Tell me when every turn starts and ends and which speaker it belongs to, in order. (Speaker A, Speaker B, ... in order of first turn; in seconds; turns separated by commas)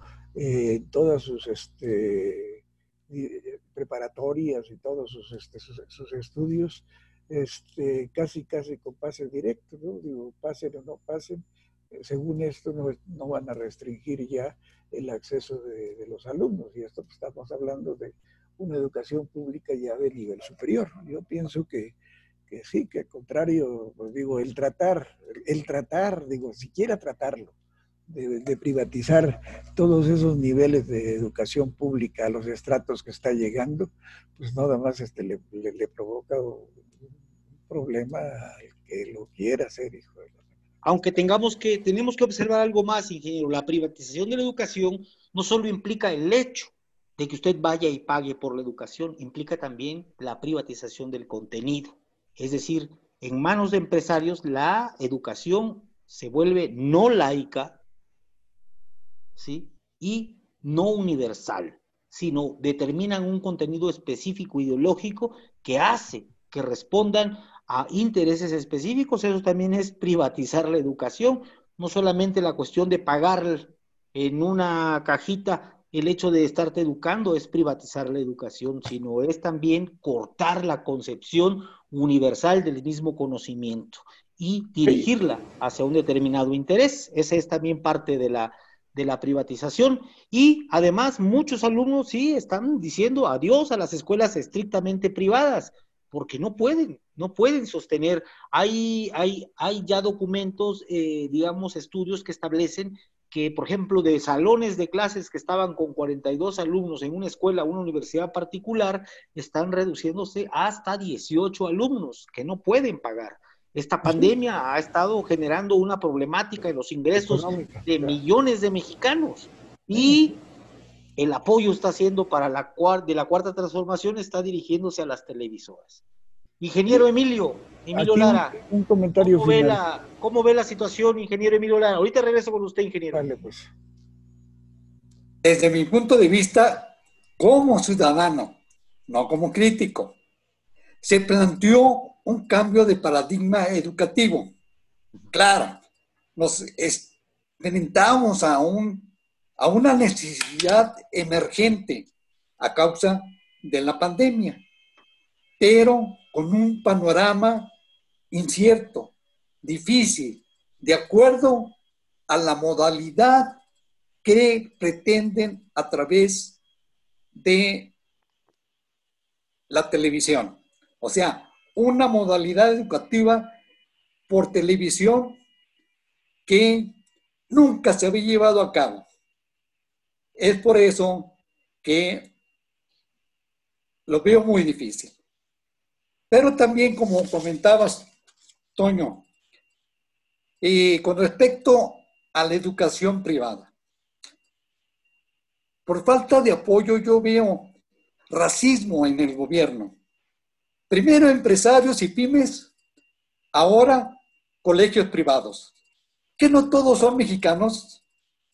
Speaker A: 0.3-21.9, Speaker A: 22.5-27.5, Speaker A: 28.1-36.8, Speaker A: 37.7-40.3, Speaker B: 40.8-57.8, Speaker B: 59.4-120.4, Speaker A: 84.8-85.1, Speaker A: 114.0-114.3, Speaker A: 117.2-118.2, Speaker A: 119.9-120.4, Speaker B: 121.2-126.0, Speaker B: 126.6-128.6, Speaker A: 127.9-129.8, Speaker B: 129.2-133.3, Speaker A: 133.1-133.7, Speaker C: 135.4-140.2, Speaker C: 141.0-144.5, Speaker C: 145.3-145.8, Speaker C: 146.4-152.1, Speaker C: 152.6-154.6, Speaker C: 155.6-157.7, Speaker C: 158.3-159.1, Speaker C: 159.6-161.8, Speaker C: 162.3-163.6, Speaker C: 164.2-166.6, Speaker C: 167.3-167.9, Speaker C: 169.7-173.6, Speaker C: 174.3-175.4, Speaker C: 176.5-177.0, Speaker C: 177.5-179.1, Speaker C: 180.4-182.3, Speaker C: 184.1-185.2, Speaker C: 186.3-188.1, Speaker C: 188.8-189.2, Speaker C: 190.6-193.7, Speaker C: 195.9-197.7, Speaker C: 198.3-199.9, Speaker C: 200.9-202.7, Speaker C: 203.5-205.7, Speaker C: 206.4-208.0